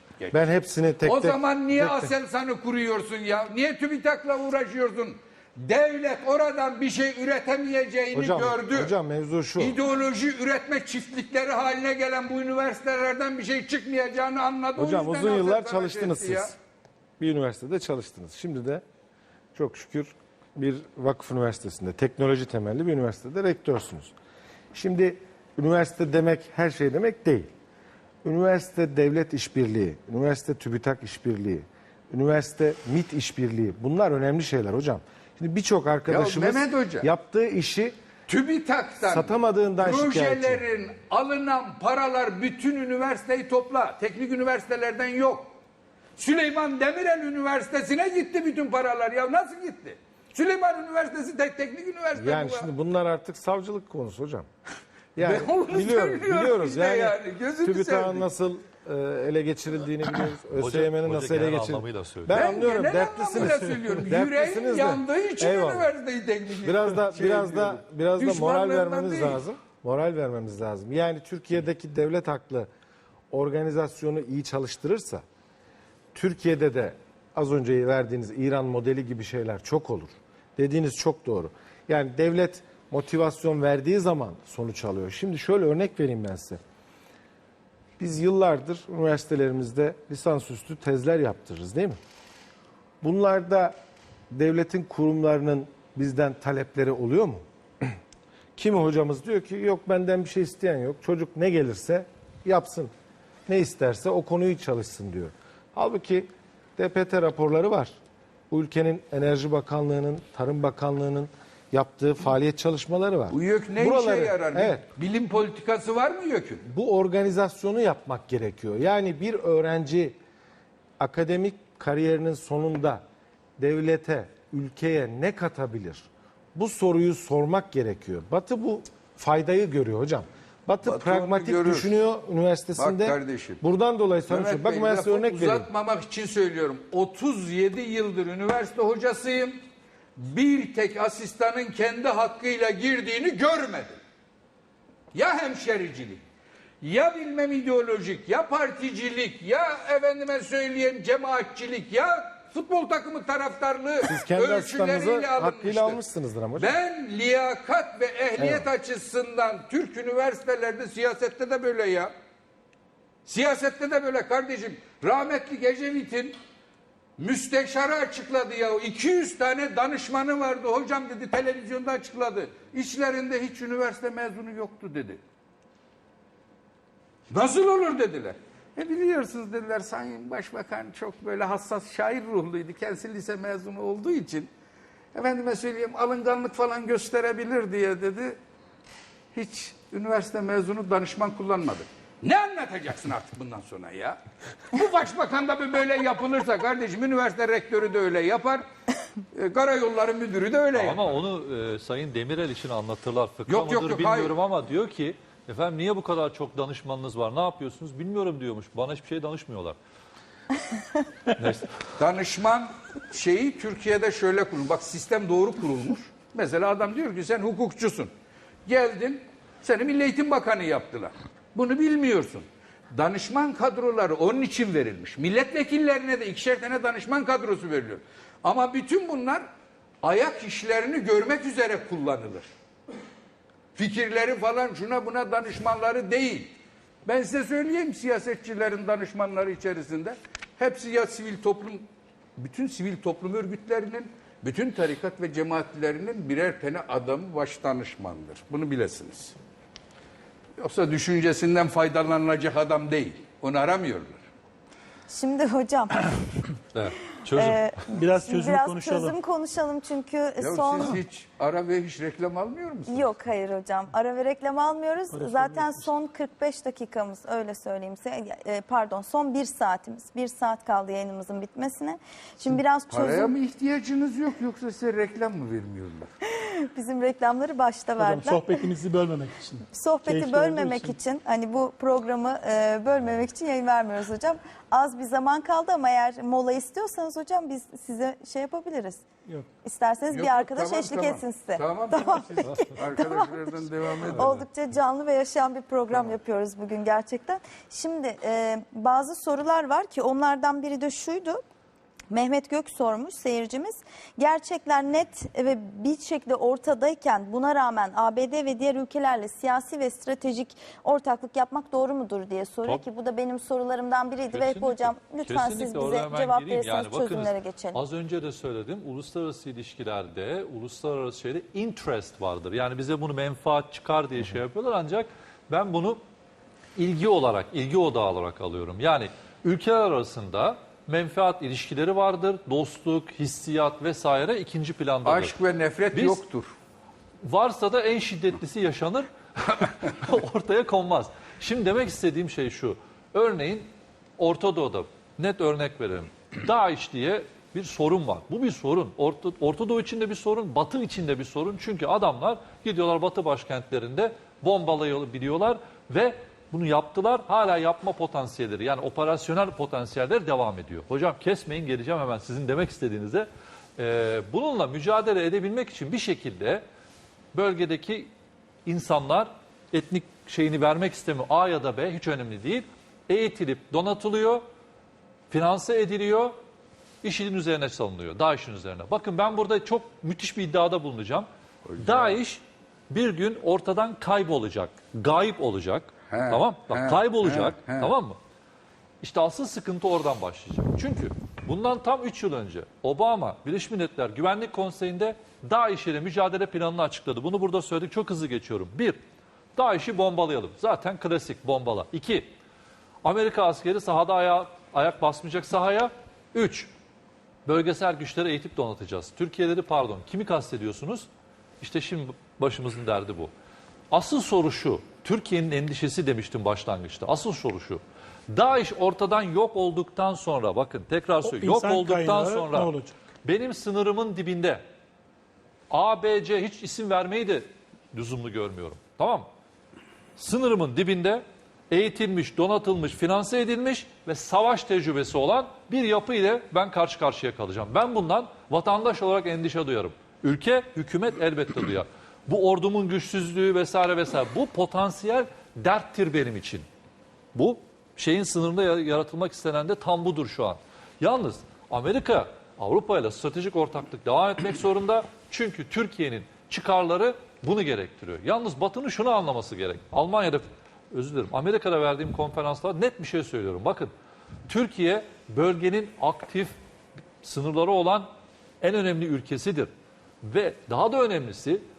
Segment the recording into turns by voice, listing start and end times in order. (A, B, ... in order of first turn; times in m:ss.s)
0:00.2-0:00.5 A
0:00.3-0:02.1 B
0:01.0-0:08.9 A
0:08.1-0:09.8 B
0:09.6-0:16.5 A
0:14.8-0:16.6 B
0:17.2-0:18.8 B
0:19.6-0:24.1 B
0:24.7-0:27.5 B
0:28.2-0:38.0 B
0:36.1-0:37.1 A
0:38.3-0:45.6 A
0:39.0-0:40.6 B
0:46.2-0:52.7 A
0:52.2-0:54.5 B
0:55.2-1:05.9 B
0:55.2-0:58.3 A
1:00.6-1:02.5 C
1:02.3-1:09.4 A
1:06.6-1:12.7 B
1:13.3-1:15.2 B
1:16.1-1:26.6 B
1:28.0-1:32.0 B
1:33.0-1:33.8 B
1:34.3-1:38.0 B
1:38.6-1:42.9 B
1:43.5-1:48.0 B
1:48.5-1:54.8 B
1:53.3-1:56.7 A
1:56.7-2:00.2 B
2:01.0-2:03.0 B
2:03.6-2:15.7 B
2:10.8-2:11.9 A
2:12.8-2:13.6 A
2:14.3-2:19.6 A
2:20.2-2:24.0 A
2:25.1-2:26.2 A
2:26.8-2:36.0 A
2:34.0-2:36.7 B
2:36.6-2:42.1 A
2:38.4-2:38.7 B
2:43.3-2:46.4 A
2:47.2-2:55.2 A
2:57.3-3:04.5 A
3:05.1-3:08.4 A
3:09.3-3:18.6 A
3:19.3-3:21.1 A
3:20.7-3:29.8 C
3:23.5-3:24.3 A
3:31.3-3:31.7 C
3:32.0-3:38.1 A
3:38.7-3:49.4 A
3:50.0-3:52.5 A
3:53.8-3:56.5 A
3:57.0-4:09.4 A
4:10.6-4:14.2 A
4:15.1-4:16.4 D
4:16.7-4:17.7 C
4:17.3-4:21.0 D
4:17.9-4:19.2 E
4:20.4-4:23.1 A
4:22.9-4:33.4 D
4:25.1-4:25.9 E
4:32.9-4:36.1 A
4:36.4-4:38.6 D
4:38.0-4:41.0 E
4:39.7-4:49.1 D
4:49.6-4:53.5 D
4:50.1-4:54.3 A
4:54.0-5:01.4 D
5:02.1-5:17.8 D
5:14.3-5:26.0 C
5:26.8-5:35.4 C
5:35.0-5:36.5 A
5:35.9-5:36.2 C
5:37.2-6:06.6 C
6:07.3-6:08.1 C
6:08.7-6:14.4 C
6:15.3-6:16.4 C
6:17.0-6:21.3 C
6:21.7-6:22.2 A
6:21.8-6:28.2 C
6:26.1-6:27.9 A
6:29.0-6:39.0 C
6:39.6-6:42.3 C
6:43.0-6:46.7 C
6:47.5-6:51.1 C
6:51.6-6:53.3 C
6:53.9-7:02.7 C
7:01.2-7:03.0 E
7:03.2-7:04.6 C
7:05.7-7:09.3 C
7:10.2-7:26.7 C
7:27.3-7:43.9 C
7:44.5-7:46.6 C
7:47.2-7:48.1 C
7:48.6-7:49.7 C
7:50.2-7:51.6 C